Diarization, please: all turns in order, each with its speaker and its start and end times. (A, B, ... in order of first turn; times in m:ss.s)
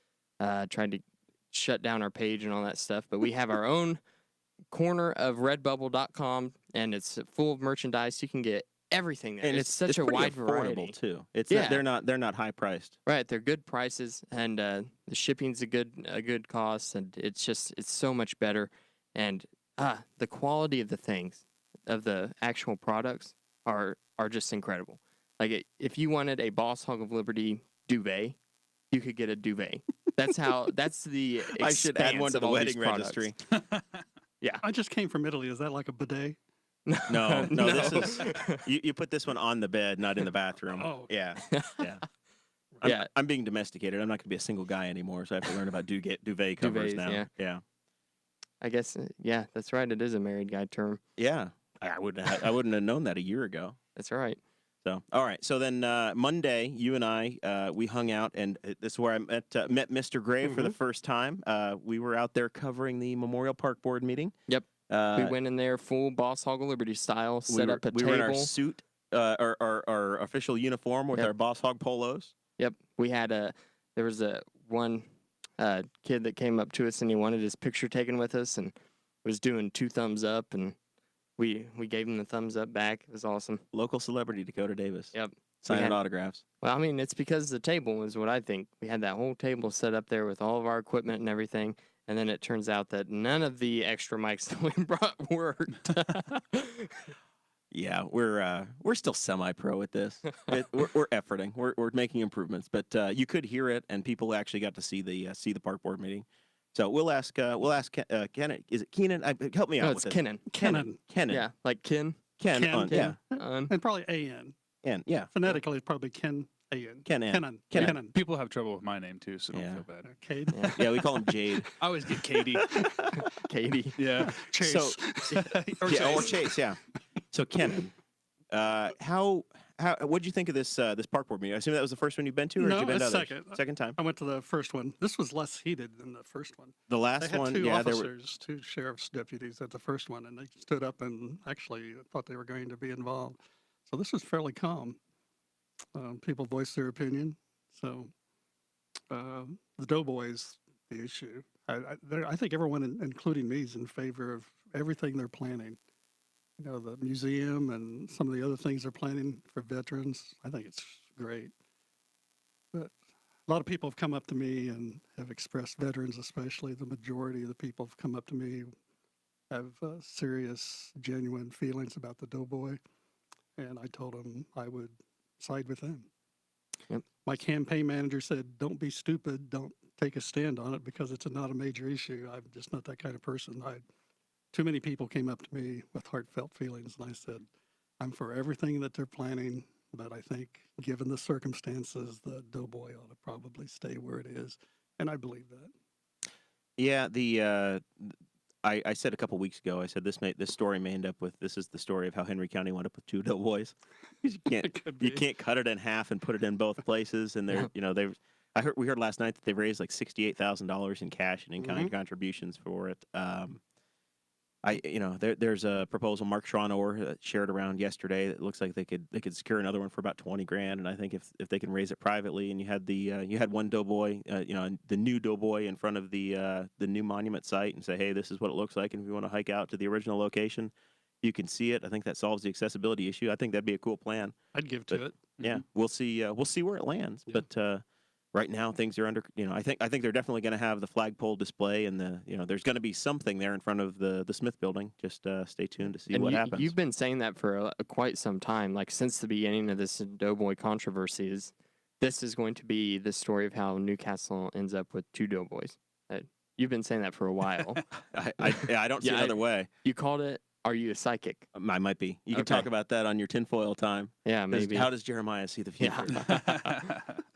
0:00.4-0:04.0 A
0:04.7-0:11.0 A
0:09.4-0:13.0 B
0:11.5-0:11.8 A
0:13.1-0:28.4 A
0:28.9-0:33.3 A
0:31.5-0:33.4 B
0:34.6-0:36.4 C
0:36.9-0:38.6 A
0:37.1-0:42.0 B
0:37.6-0:38.0 C
0:40.7-0:41.1 C
0:41.4-0:41.9 A
0:42.8-0:47.6 B
0:46.6-0:47.3 A
0:48.6-0:51.0 A
0:51.2-0:53.8 B
0:54.0-0:54.4 A
0:54.8-1:04.3 B
1:04.5-1:08.5 A
1:04.9-1:05.4 B
1:07.5-1:12.3 B
1:12.6-1:15.1 A
1:15.6-1:20.8 A
1:21.4-1:23.6 A
1:23.7-1:26.4 B
1:25.1-1:26.0 A
1:26.6-1:37.1 A
1:37.7-1:51.4 B
1:49.8-1:50.5 A
1:50.5-1:51.0 C
1:51.3-1:52.2 A
1:52.4-1:53.2 B
1:52.5-1:54.6 C
1:52.8-1:53.7 A
1:54.8-1:55.6 B
1:55.3-1:58.2 C
1:57.1-1:58.0 B
1:58.0-1:59.9 D
1:59.5-1:59.8 B
1:59.9-2:01.1 C
2:00.5-2:00.8 A
2:00.7-2:01.7 B
2:01.8-2:02.9 D
2:03.1-2:04.0 A
2:04.0-2:04.5 D
2:04.2-2:06.6 C
2:04.6-2:06.8 B
2:07.3-2:07.9 B
2:08.5-2:14.0 B
2:12.6-2:25.0 C
2:16.9-2:18.1 B
2:26.0-2:28.1 C
2:29.1-2:35.8 C
2:36.6-2:41.5 C
2:43.5-2:48.7 C
2:49.5-2:52.8 C
2:53.6-2:56.1 C
2:57.2-3:03.8 C
3:04.5-3:07.4 C
3:08.0-3:15.7 C
3:16.8-3:33.6 B
3:24.6-3:25.3 C
3:31.6-3:31.9 C
3:34.6-3:54.4 B
3:54.5-3:55.4 C
3:54.9-4:06.8 B
4:06.1-4:17.9 A
4:17.9-4:19.7 B
4:19.0-4:21.5 A
4:21.6-4:26.4 B
4:22.3-4:22.7 A
4:24.2-4:24.9 A
4:25.8-4:26.7 A
4:26.3-4:27.1 D